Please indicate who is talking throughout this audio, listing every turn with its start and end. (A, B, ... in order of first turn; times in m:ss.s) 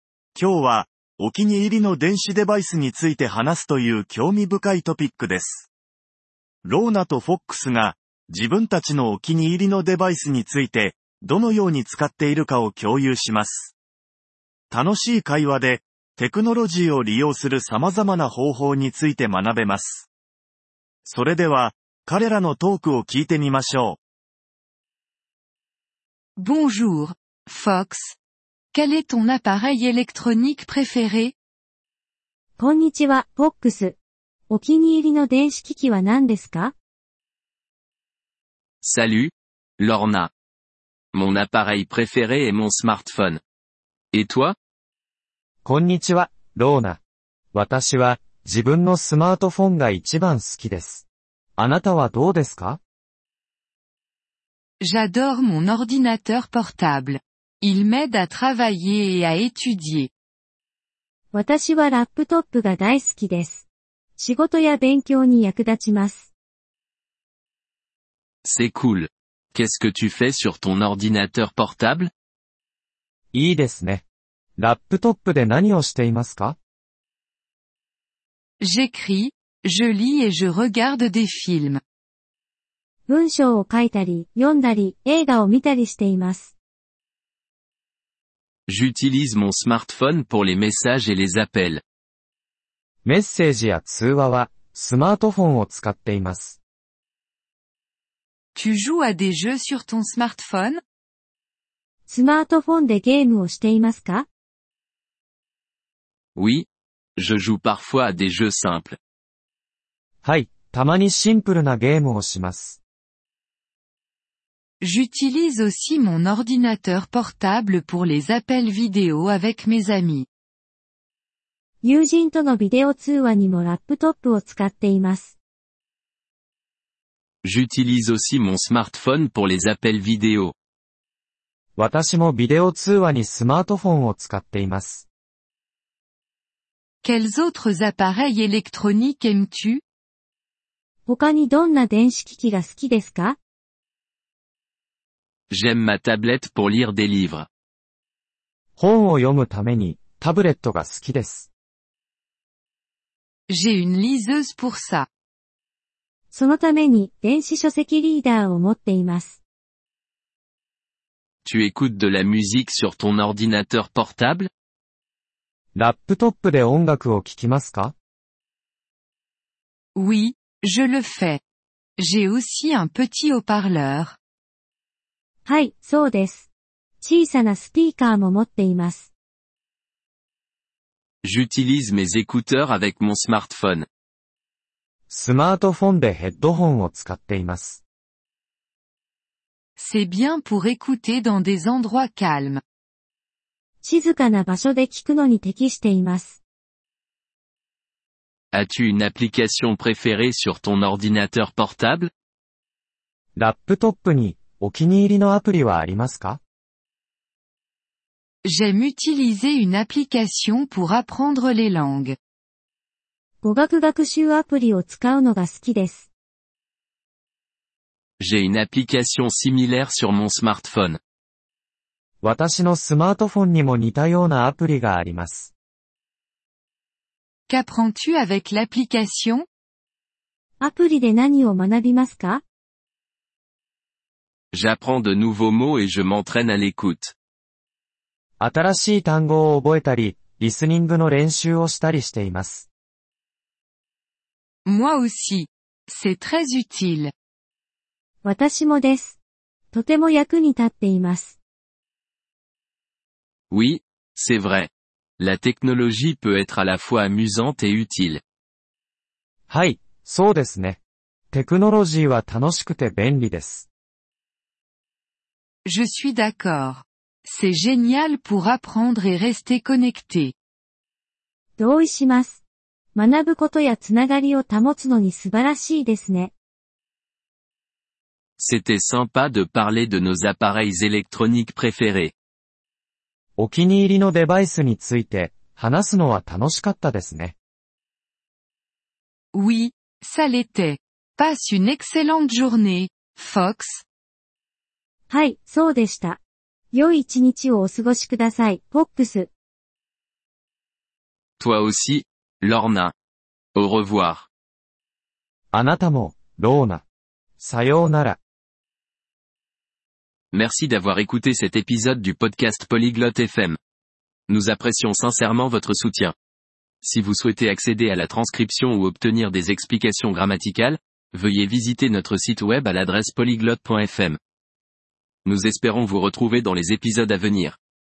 0:00.4-0:05.7 A
0:06.6-0:13.8 A
0:14.7-0:20.1 A
0:21.0-0:24.0 A
0:26.4-0:28.2 B
0:28.7-0:31.4 B
0:32.6-0:34.0 C
0:34.5-0:36.7 C
0:38.8-0:40.3 D
0:41.1-0:43.4 D
0:44.1-0:44.6 D
0:45.6-0:47.0 E
0:47.5-0:51.0 E
0:51.6-0:52.8 E
0:54.8-1:00.1 B
1:01.3-1:03.7 C
1:04.2-1:06.3 C
1:08.4-1:12.1 D
1:13.3-1:14.0 E
1:14.6-1:16.6 E
1:18.6-1:21.8 B
1:23.1-1:26.6 C
1:28.7-1:31.8 D
1:33.0-1:36.6 E
1:38.6-1:40.8 B
1:42.1-1:44.3 C
1:46.4-1:46.7 D
1:47.2-1:49.0 D
1:50.2-1:52.8 E
1:54.8-2:00.3 B
2:01.8-2:05.4 C
2:07.4-2:10.5 D
2:11.8-2:15.1 E
2:17.0-2:19.8 B
2:21.1-2:23.4 C
2:25.5-2:27.5 D
2:28.8-2:31.5 E
2:33.5-2:35.1 B
2:36.3-2:39.4 C
2:41.4-2:44.5 D
2:45.8-2:47.9 E
2:50.0-2:51.4 B
2:52.0-2:54.2 B
2:55.4-2:56.5 C
2:57.0-2:59.1 C
3:01.2-3:03.9 D
3:05.1-3:07.8 E
3:09.8-3:12.6 B
3:13.8-3:16.4 C
3:18.5-3:22.1 D
3:23.4-3:26.4 E
3:28.4-3:32.2 B
3:33.4-3:36.1 C
3:38.2-3:41.0 D
3:42.2-3:45.5 E
3:47.5-3:49.4 B
3:50.6-3:52.4 C
3:54.5-3:57.1 D
3:58.4-4:02.7 E
4:04.6-4:07.1 B
4:08.2-4:09.2 C
4:09.7-4:11.4 C
4:13.5-4:18.2 D
4:19.5-4:20.8 E
4:21.3-4:23.7 E
4:25.6-4:30.3 B
4:31.6-4:32.4 C
4:33.0-4:36.3 C
4:38.4-4:42.1 D
4:43.4-4:47.4 E
4:49.3-4:53.9 B
4:55.1-4:56.2 C
4:56.7-4:59.3 C
5:01.4-5:02.9 D
5:03.6-5:04.3 D
5:05.5-5:06.8 E
5:07.4-5:08.2 E
5:10.3-5:13.6 D
5:14.3-5:16.1 D
5:16.8-5:24.2 D
5:25.2-5:27.6 D